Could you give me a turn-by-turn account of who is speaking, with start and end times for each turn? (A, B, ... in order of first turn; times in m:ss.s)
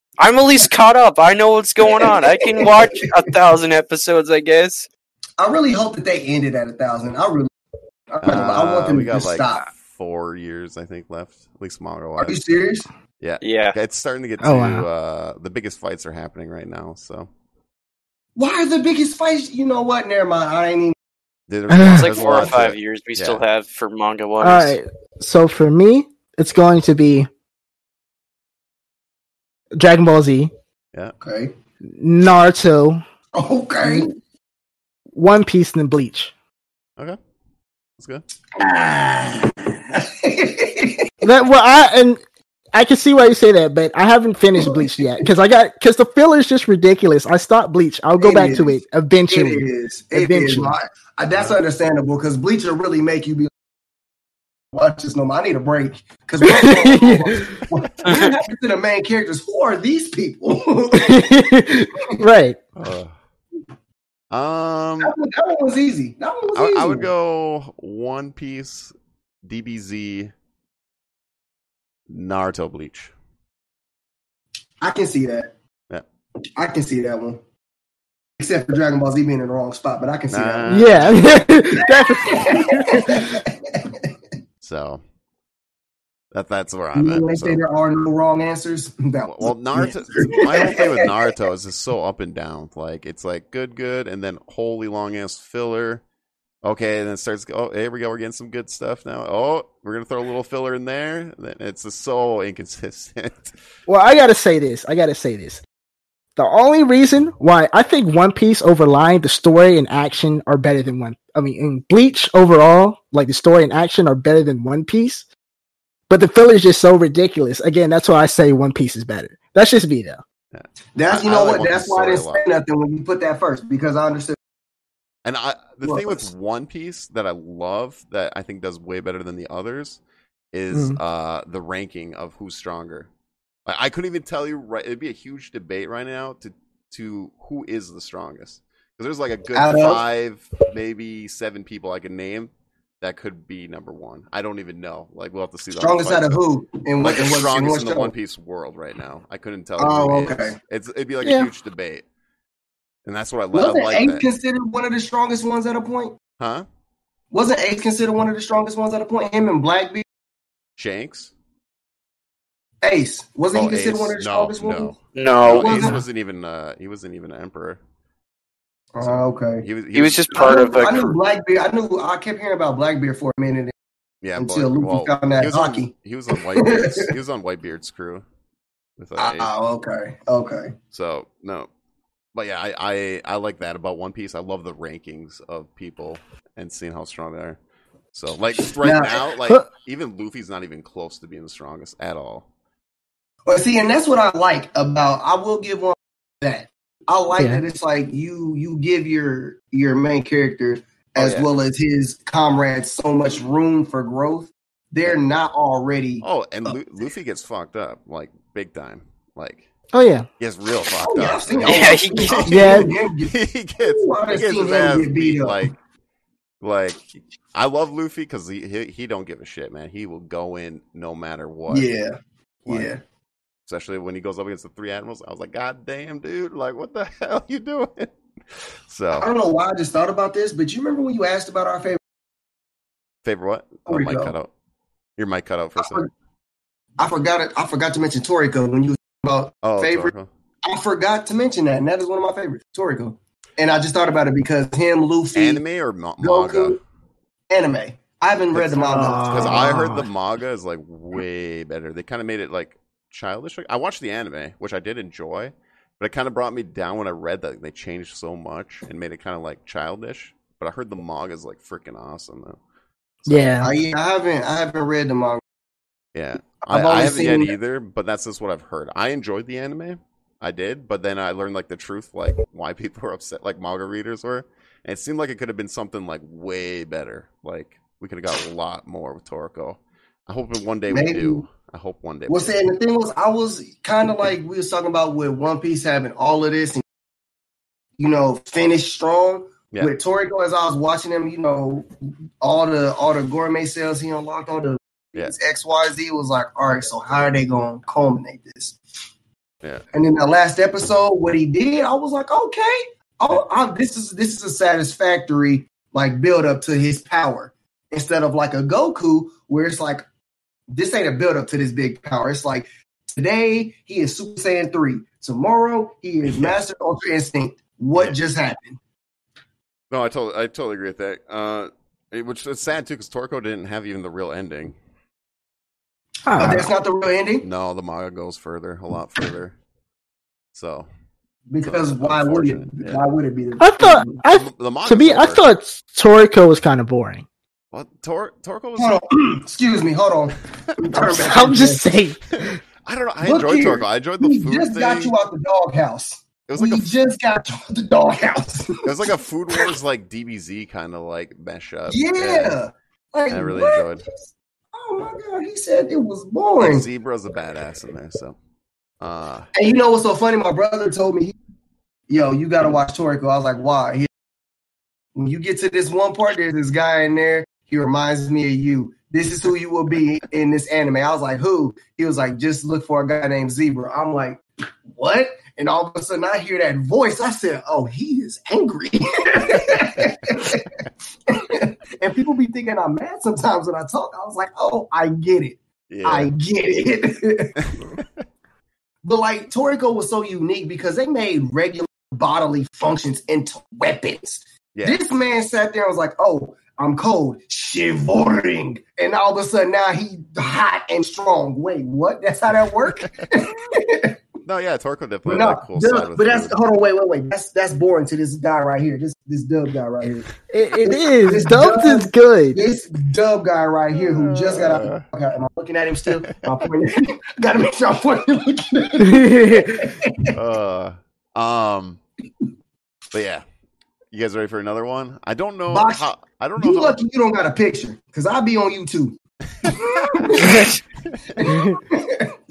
0:00.2-0:04.9 A
0:01.9-0:02.8 B
0:05.4-0:07.5 B
0:08.1-0:09.7 B
0:08.2-0:12.4 C
0:12.2-0:12.9 B
0:13.2-0:17.3 C
0:13.4-0:13.8 A
0:14.4-0:14.9 D
0:18.4-0:21.0 B
0:21.5-0:23.4 C
0:21.7-0:22.1 D
0:21.9-0:24.8 A
0:24.4-0:27.3 D
0:29.7-0:30.5 D
0:31.2-0:31.5 B
0:31.9-0:33.0 D
0:33.3-0:34.1 B
0:35.1-0:36.3 D
0:38.0-0:38.2 C
0:38.5-0:41.3 B
0:41.2-0:42.2 D
0:42.7-0:50.7 D
0:48.2-0:48.8 B
0:49.3-0:53.5 B
0:54.7-1:01.3 B
0:56.4-0:57.6 D
0:58.0-0:58.3 A
1:00.9-1:02.6 D
1:02.8-1:03.1 C
1:04.3-1:05.1 C
1:05.0-1:07.1 B
1:06.5-1:08.9 C
1:09.4-1:10.3 C
1:12.1-1:13.1 C
1:14.8-1:15.5 B
1:16.6-1:17.4 B
1:18.4-1:20.9 B
1:20.3-1:21.4 C
1:20.7-1:23.4 D
1:21.8-1:24.1 B
1:24.6-1:25.0 C
1:26.3-1:27.6 C
1:26.9-1:31.1 B
1:29.2-1:36.0 C
1:36.6-1:43.5 C
1:43.9-1:45.6 D
1:46.4-1:55.2 D
1:56.1-2:00.2 D
2:00.5-2:02.4 C
2:01.0-2:04.4 B
2:05.2-2:10.0 C
2:05.8-2:06.3 B
2:10.5-2:13.1 C
2:10.7-2:11.0 D
2:13.6-2:26.4 C
2:19.5-2:20.0 B
2:25.7-2:28.1 B
2:27.0-2:32.0 C
2:29.8-2:30.6 B
2:31.2-2:31.5 D
2:33.0-2:34.2 C
2:33.5-2:36.2 B
2:36.4-2:36.6 C
2:37.3-2:40.0 B
2:40.8-2:41.3 C
2:42.8-2:44.9 B
2:43.5-2:47.8 C
2:45.1-2:45.9 A
2:45.5-2:46.0 B
2:48.9-2:49.6 B
2:49.0-2:51.1 C
2:49.9-2:51.0 A
2:50.3-2:53.7 B
2:54.2-2:58.2 C
2:54.4-2:57.1 B
2:59.0-2:59.5 C
2:59.2-3:00.7 B
3:00.9-3:01.7 C
3:02.3-3:07.6 C
3:08.1-3:12.4 C
3:08.8-3:09.2 B
3:13.5-3:26.7 B
3:17.4-3:17.6 D
3:21.2-3:21.5 C
3:26.2-3:29.7 C
3:29.9-3:30.3 D
3:30.4-3:35.7 C
3:31.0-3:35.7 B
3:31.6-3:32.5 A
3:32.5-3:32.9 D
3:36.6-3:41.9 C
3:41.7-3:42.2 B
3:42.6-3:42.9 C
3:42.7-3:43.0 B
3:43.7-3:49.3 C
3:49.2-3:52.0 B
3:53.2-3:54.5 C
3:53.9-3:54.3 B
3:55.2-3:56.1 C
3:55.8-3:56.1 B
3:57.0-4:00.1 B
3:59.6-4:00.3 C
4:00.6-4:05.6 B
4:05.3-4:06.8 C
4:06.2-4:06.8 B
4:07.5-4:09.7 B
4:08.5-4:22.6 C
4:08.8-4:10.1 D
4:23.3-4:23.7 D
4:23.6-4:25.4 B
4:26.1-4:42.6 C
4:26.6-4:27.5 B
4:40.9-4:41.4 B
4:42.3-4:46.8 B
4:48.0-4:51.9 B
4:52.4-4:58.8 B
4:59.9-5:10.0 B
5:10.7-5:18.8 B
5:16.2-5:16.6 C
5:19.9-5:24.7 C
5:26.2-5:26.7 D
5:26.4-5:27.4 B
5:26.4-5:26.7 C
5:27.4-5:29.5 C
5:30.5-5:30.9 C
5:31.5-5:34.2 B
5:31.6-5:33.0 C
5:33.6-5:37.2 D
5:34.3-5:35.4 C
5:37.7-5:39.0 C
5:38.8-5:41.8 B
5:40.9-5:42.6 D
5:42.3-5:45.1 C
5:43.2-5:48.8 B
5:46.5-5:46.9 C
5:48.8-5:52.6 C
5:51.9-5:56.8 B
5:53.3-5:54.0 C
5:56.6-5:58.3 C
5:59.0-5:59.5 C
5:59.5-6:01.3 B
6:02.1-6:04.1 B
6:05.1-6:27.6 B
6:25.9-6:26.3 C
6:27.6-6:28.0 C
6:29.0-6:44.2 B
6:34.7-6:35.0 C
6:44.4-6:46.6 C
6:45.2-6:50.3 B
6:50.5-6:52.6 D
6:50.8-7:00.3 B
6:53.9-6:55.0 C
6:56.1-6:56.7 C
6:59.0-6:59.9 D
7:00.3-7:02.0 C
7:03.1-7:03.4 C
7:04.1-7:07.0 C
7:05.7-7:06.0 B
7:06.6-7:10.8 B
7:09.6-7:11.6 C
7:10.4-7:10.7 D
7:11.4-7:12.3 B
7:11.5-7:11.8 D